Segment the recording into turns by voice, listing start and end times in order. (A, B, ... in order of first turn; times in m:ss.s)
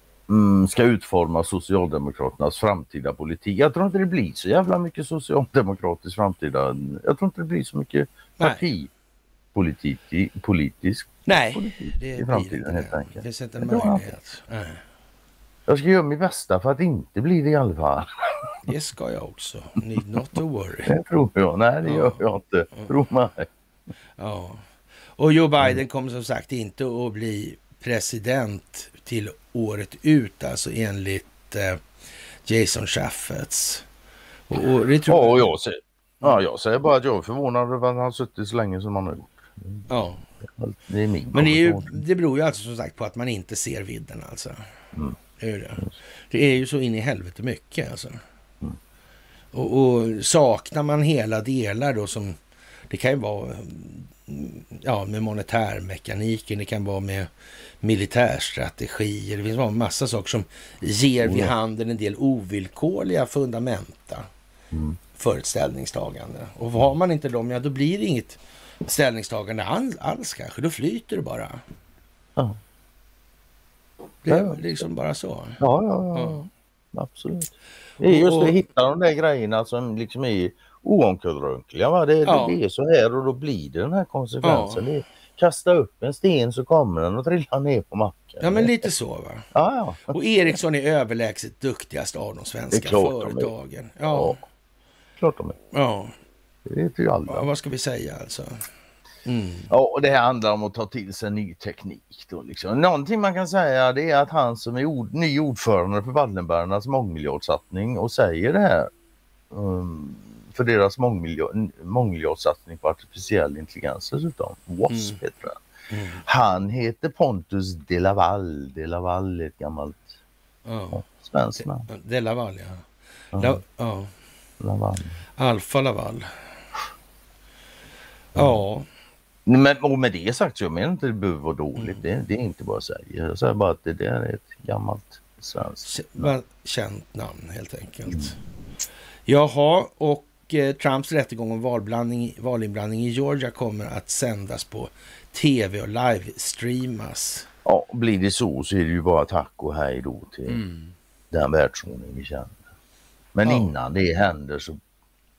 0:00.3-0:08.9 A
0:09.5-0:14.1 A
0:11.2-0:14.8 B
0:15.7-0:18.6 A
0:18.6-0:20.9 B
0:20.8-0:23.5 A
0:21.8-0:22.2 B
0:24.2-0:24.6 B
0:25.2-0:31.8 B
0:32.4-0:33.8 B
0:34.5-0:35.4 B
0:35.1-0:39.8 A
0:39.9-0:40.2 B
0:40.5-0:42.0 A
0:41.3-0:44.6 B
0:45.4-0:48.2 B
0:49.5-0:52.4 B
0:52.9-0:57.3 B
0:57.8-1:04.3 B
1:01.2-1:01.5 A
1:04.7-1:05.0 A
1:05.1-1:11.6 B
1:14.2-1:15.6 B
1:14.3-1:14.8 A
1:15.6-1:28.8 A
1:16.1-1:16.5 B
1:18.0-1:18.6 B
1:22.2-1:22.6 B
1:24.4-1:24.9 B
1:28.4-1:29.5 B
1:29.5-1:30.2 A
1:30.1-1:34.4 B
1:32.7-1:33.5 A
1:34.0-1:34.4 A
1:35.2-1:35.6 A
1:35.7-1:36.1 B
1:36.6-1:37.5 A
1:37.3-1:38.6 B
1:39.2-1:39.7 B
1:39.7-1:48.9 A
1:49.5-1:55.6 A
1:54.9-1:55.2 B
1:55.9-1:56.2 B
1:56.2-2:00.1 A
2:00.6-2:01.0 B
2:00.9-2:01.8 A
2:01.9-2:02.8 B
2:03.3-2:03.6 A
2:03.4-2:04.1 B
2:04.6-2:05.1 A
2:05.4-2:06.3 B
2:08.3-2:08.6 A
2:08.3-2:08.9 B
2:09.4-2:16.3 A
2:11.8-2:12.0 B
2:15.8-2:18.4 B
2:18.1-2:18.3 A
2:19.3-2:27.5 B
2:27.6-2:30.6 A
2:30.5-2:30.9 B
2:31.3-2:32.6 A
2:33.3-2:34.8 A
2:33.4-2:33.7 B